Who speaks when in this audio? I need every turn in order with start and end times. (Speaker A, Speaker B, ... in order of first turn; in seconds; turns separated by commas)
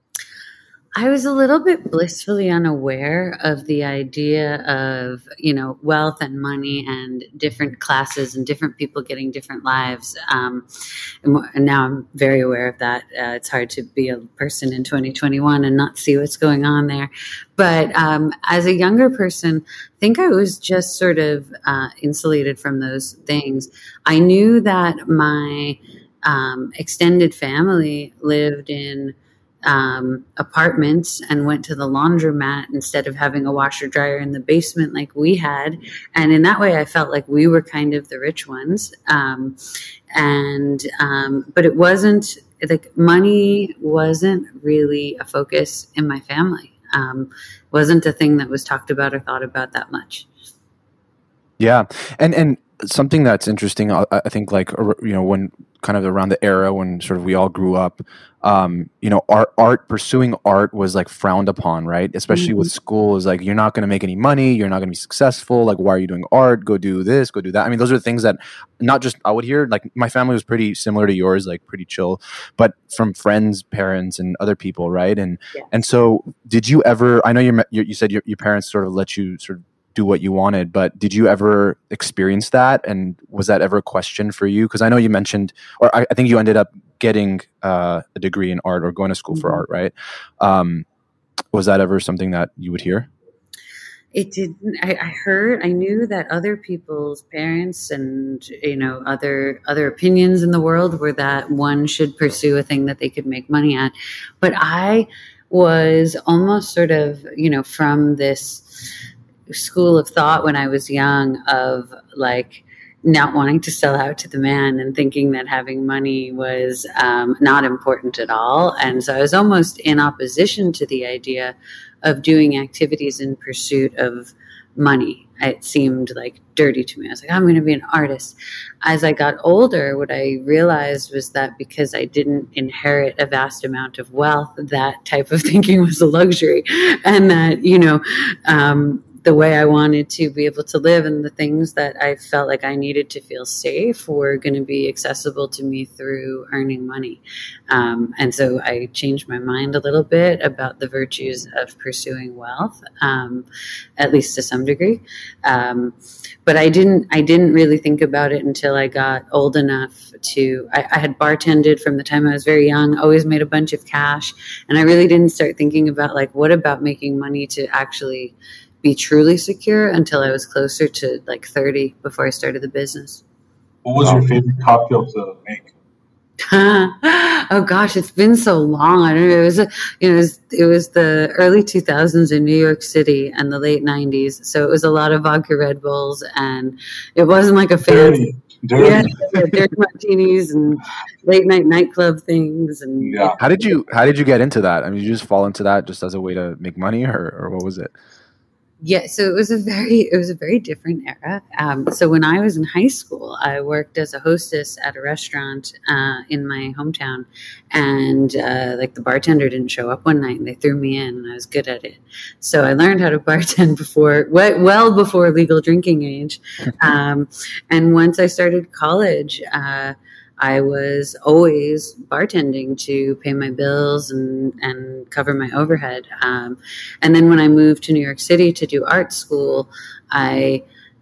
Speaker A: 0.9-10.7, Speaker A: 11.2-39.6, Speaker A: 40.1-50.3, Speaker B: 51.6-90.8, Speaker A: 62.3-62.7, Speaker B: 91.5-93.1, Speaker A: 94.1-108.9, Speaker A: 109.5-153.4, Speaker A: 154.0-173.2, Speaker C: 173.8-175.7, Speaker A: 176.5-188.2, Speaker C: 187.8-189.5, Speaker A: 188.8-193.4, Speaker C: 193.0-193.4, Speaker B: 193.4-197.9, Speaker A: 198.8-230.6